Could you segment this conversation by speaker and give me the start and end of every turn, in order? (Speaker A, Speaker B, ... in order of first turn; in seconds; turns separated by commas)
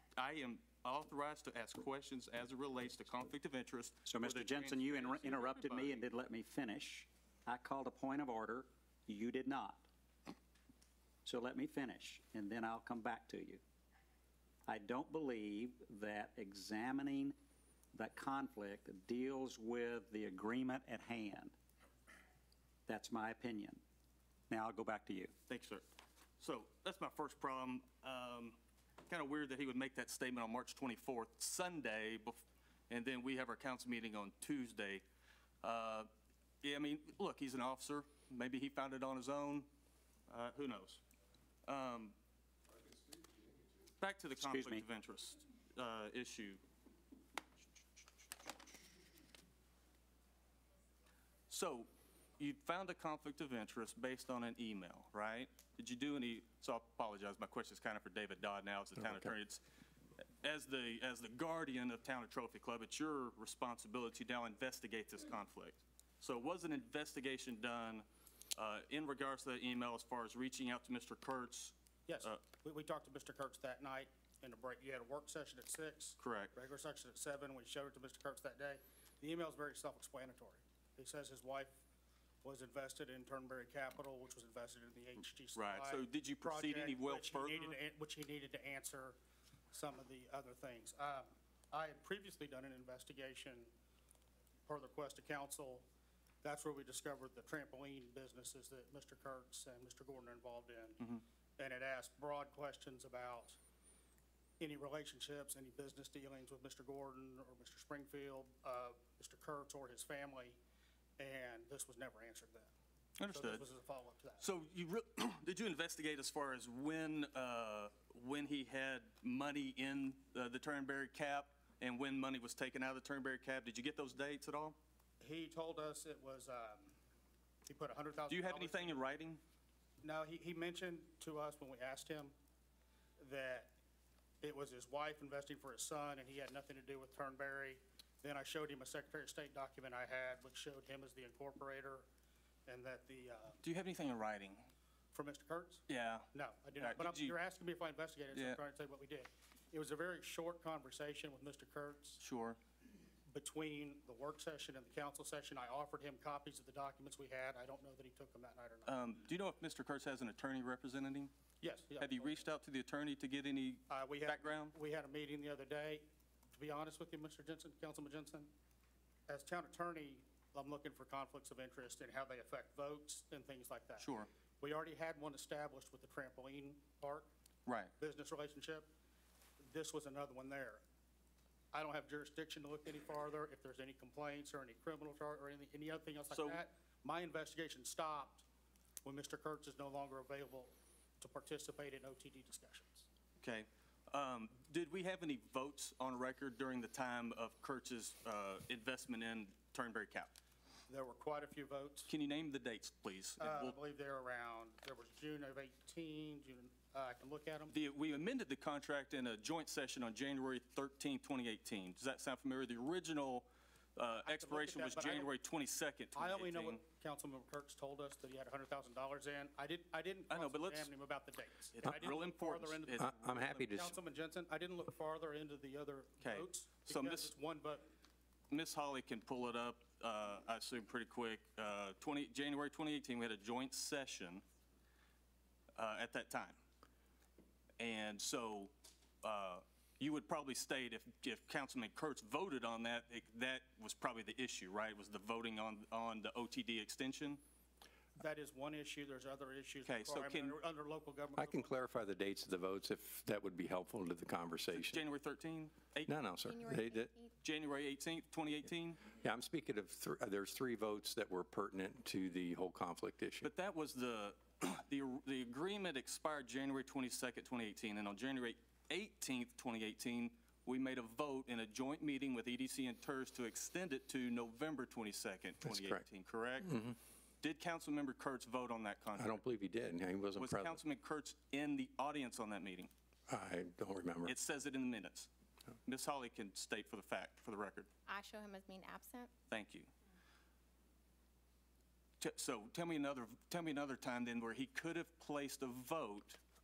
Speaker A: 0.2-6.0, Speaker B: 4.1-9.9, Speaker B: 11.3-13.6, Speaker B: 14.7-17.4, Speaker B: 17.9-21.6, Speaker B: 22.9-23.8, Speaker B: 24.5-25.3, Speaker A: 25.5-25.8, Speaker A: 26.4-35.0, Speaker A: 35.6-36.1, Speaker A: 36.6-39.7, Speaker A: 40.3-41.0, Speaker A: 41.7-42.2, Speaker A: 44.0-46.6, Speaker B: 44.5-44.8, Speaker A: 51.5-59.6, Speaker A: 60.4-68.0, Speaker A: 68.6-72.4, Speaker C: 72.1-81.8, Speaker A: 76.2-76.5, Speaker C: 82.4-89.2, Speaker A: 85.6-87.8, Speaker C: 89.7-93.7, Speaker C: 94.7-95.8, Speaker C: 96.4-103.6, Speaker C: 104.6-110.6, Speaker C: 111.2-112.7, Speaker A: 113.2-113.6, Speaker C: 113.3-114.5, Speaker A: 114.4-124.8, Speaker C: 125.2-127.0, Speaker C: 127.7-129.1, Speaker A: 128.3-129.4, Speaker C: 130.0-132.3, Speaker C: 133.2-133.7, Speaker C: 134.4-142.1, Speaker C: 142.7-143.6, Speaker A: 143.6-144.7, Speaker C: 145.1-152.2, Speaker A: 145.9-147.4, Speaker A: 148.3-148.6, Speaker A: 152.2-152.6, Speaker C: 153.3-159.0, Speaker A: 158.8-161.3, Speaker C: 161.6-162.5, Speaker A: 162.0-164.8, Speaker C: 163.9-168.5, Speaker C: 169.3-177.3, Speaker A: 174.0-174.3, Speaker A: 177.7-177.9, Speaker C: 178.0-178.9, Speaker C: 179.6-180.8, Speaker C: 181.7-188.4, Speaker A: 186.3-186.6, Speaker C: 189.0-193.1, Speaker A: 193.4-200.3, Speaker C: 200.9-202.1, Speaker A: 202.1-203.8, Speaker C: 203.4-207.8, Speaker A: 207.7-216.8, Speaker C: 214.2-215.3, Speaker C: 216.2-227.8, Speaker A: 220.3-220.9, Speaker A: 221.7-223.1, Speaker D: 223.0-224.0, Speaker A: 226.2-227.3, Speaker A: 228.5-234.4, Speaker A: 235.8-236.6, Speaker A: 237.8-238.7, Speaker A: 239.2-247.4, Speaker C: 248.2-251.9, Speaker A: 249.9-250.6, Speaker D: 251.4-255.0, Speaker A: 254.7-256.1, Speaker D: 256.1-257.1, Speaker E: 256.4-257.3, Speaker A: 257.4-259.0, Speaker D: 259.1-263.5, Speaker A: 263.4-276.8, Speaker D: 275.6-276.0, Speaker D: 276.6-277.0, Speaker A: 277.4-279.4, Speaker D: 279.2-280.8, Speaker A: 280.4-282.9, Speaker D: 283.3-284.4, Speaker A: 284.2-285.3, Speaker A: 285.9-287.9, Speaker E: 288.1-289.3, Speaker A: 289.5-289.9, Speaker A: 292.2-296.4